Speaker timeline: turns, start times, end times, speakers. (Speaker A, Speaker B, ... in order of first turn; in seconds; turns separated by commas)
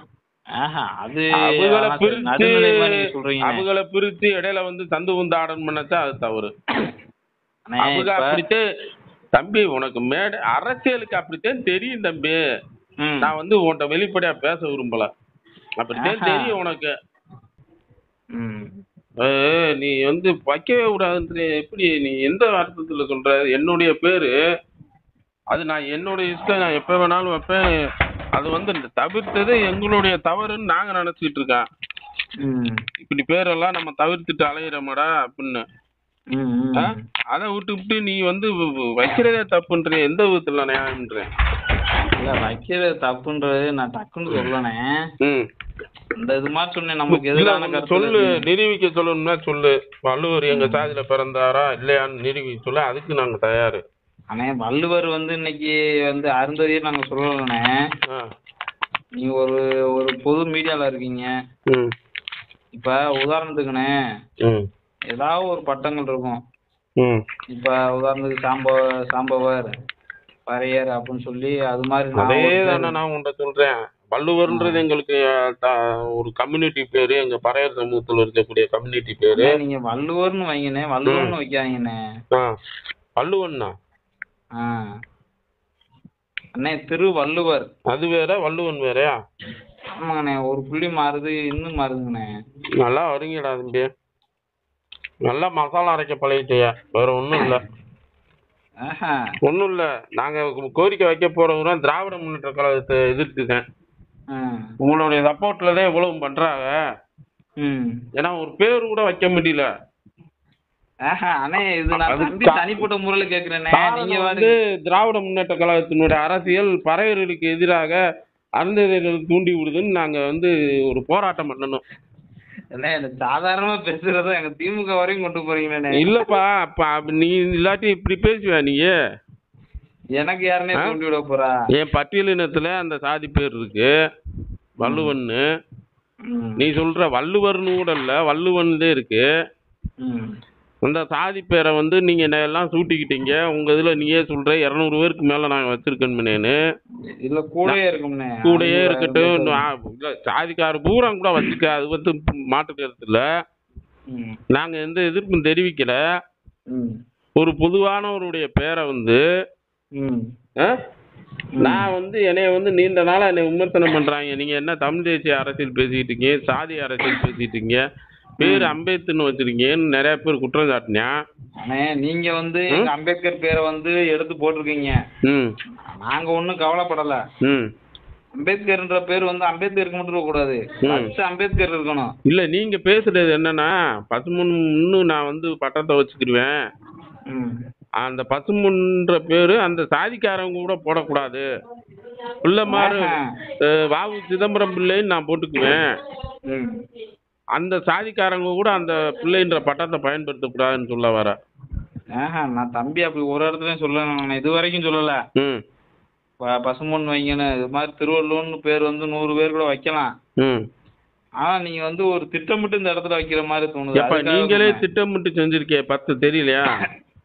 Speaker A: 0.6-3.6, Speaker B: 1.4-2.7, Speaker B: 3.4-6.5, Speaker A: 7.7-8.4, Speaker B: 7.8-8.6, Speaker B: 9.3-12.4, Speaker A: 13.0-13.3, Speaker B: 13.2-15.1, Speaker B: 15.8-16.9, Speaker A: 16.0-16.5, Speaker A: 18.4-18.7, Speaker B: 19.2-24.3, Speaker B: 25.5-27.8, Speaker B: 28.3-31.6, Speaker A: 32.4-32.8, Speaker B: 33.0-35.6, Speaker A: 36.3-37.0, Speaker B: 36.8-41.3, Speaker A: 42.2-44.9, Speaker B: 45.2-45.5, Speaker A: 46.2-48.4, Speaker B: 47.1-53.8, Speaker A: 50.5-50.9, Speaker A: 54.3-57.7, Speaker A: 59.2-61.3, Speaker A: 62.8-63.9, Speaker A: 65.1-66.4, Speaker A: 67.5-69.7, Speaker A: 70.5-72.9, Speaker B: 72.2-79.5, Speaker A: 74.5-74.8, Speaker A: 79.4-81.9, Speaker B: 81.1-81.3, Speaker B: 83.2-83.7, Speaker A: 84.6-84.8, Speaker A: 86.6-87.7, Speaker B: 87.9-89.1, Speaker A: 90.0-92.3, Speaker B: 92.8-93.9, Speaker B: 95.2-97.6, Speaker A: 98.8-99.2, Speaker B: 99.4-103.6, Speaker A: 104.3-104.7, Speaker B: 104.8-106.7, Speaker A: 107.6-107.9, Speaker B: 108.2-109.7, Speaker A: 111.1-114.5, Speaker B: 111.9-112.8, Speaker B: 113.7-118.0, Speaker B: 118.6-121.8, Speaker A: 122.7-126.1, Speaker B: 126.0-128.9, Speaker A: 130.2-131.5, Speaker B: 131.8-133.9, Speaker B: 134.8-135.4, Speaker A: 134.8-135.1, Speaker A: 136.3-136.6, Speaker B: 136.6-139.2, Speaker A: 140.0-140.3, Speaker B: 140.8-146.6, Speaker A: 147.2-149.6, Speaker B: 148.4-153.2, Speaker A: 154.1-154.4, Speaker B: 154.5-156.0, Speaker B: 157.4-159.2, Speaker A: 160.0-160.2, Speaker A: 161.6-161.9, Speaker B: 161.6-167.8, Speaker B: 168.4-171.1, Speaker A: 168.4-168.7, Speaker A: 171.6-175.0, Speaker B: 175.2-175.5, Speaker A: 176.0-177.2, Speaker B: 177.4-177.7, Speaker A: 178.4-182.1, Speaker B: 180.8-181.1, Speaker B: 182.3-186.6, Speaker A: 187.3-187.6, Speaker B: 188.0-191.4, Speaker B: 192.4-195.9, Speaker A: 192.7-193.2, Speaker A: 196.5-196.8, Speaker B: 197.6-201.3, Speaker A: 202.2-205.2, Speaker A: 206.5-210.1, Speaker A: 211.4-214.8, Speaker B: 213.9-216.7